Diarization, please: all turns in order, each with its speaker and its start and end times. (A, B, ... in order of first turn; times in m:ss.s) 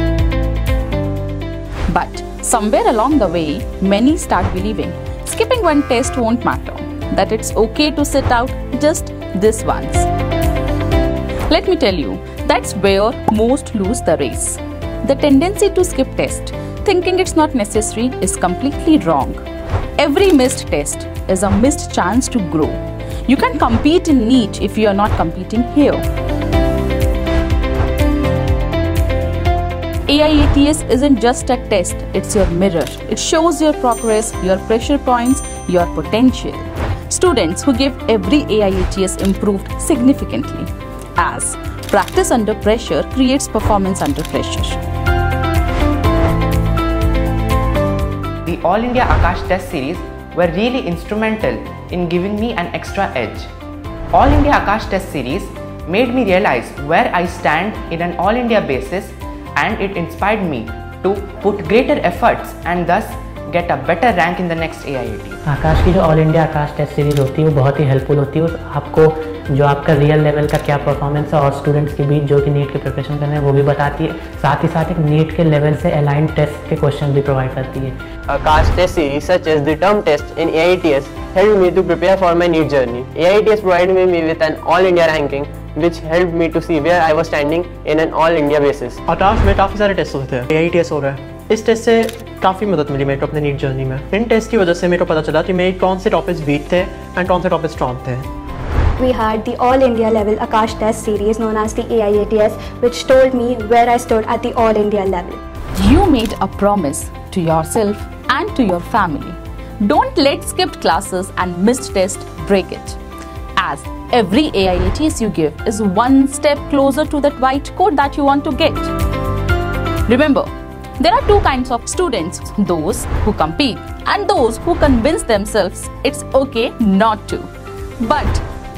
0:01.9-0:10.1 A
0:11.5-0:19.4 A
0:20.0-0:26.0 A
0:30.1-0:44.8 A
0:48.4-0:53.5 B
0:54.1-1:05.4 B
1:05.4-1:18.0 C
1:18.3-1:29.0 D
1:29.1-1:38.2 E
1:39.0-1:45.4 F
1:45.8-1:53.0 A
1:53.6-1:58.9 A
2:00.1-2:08.4 A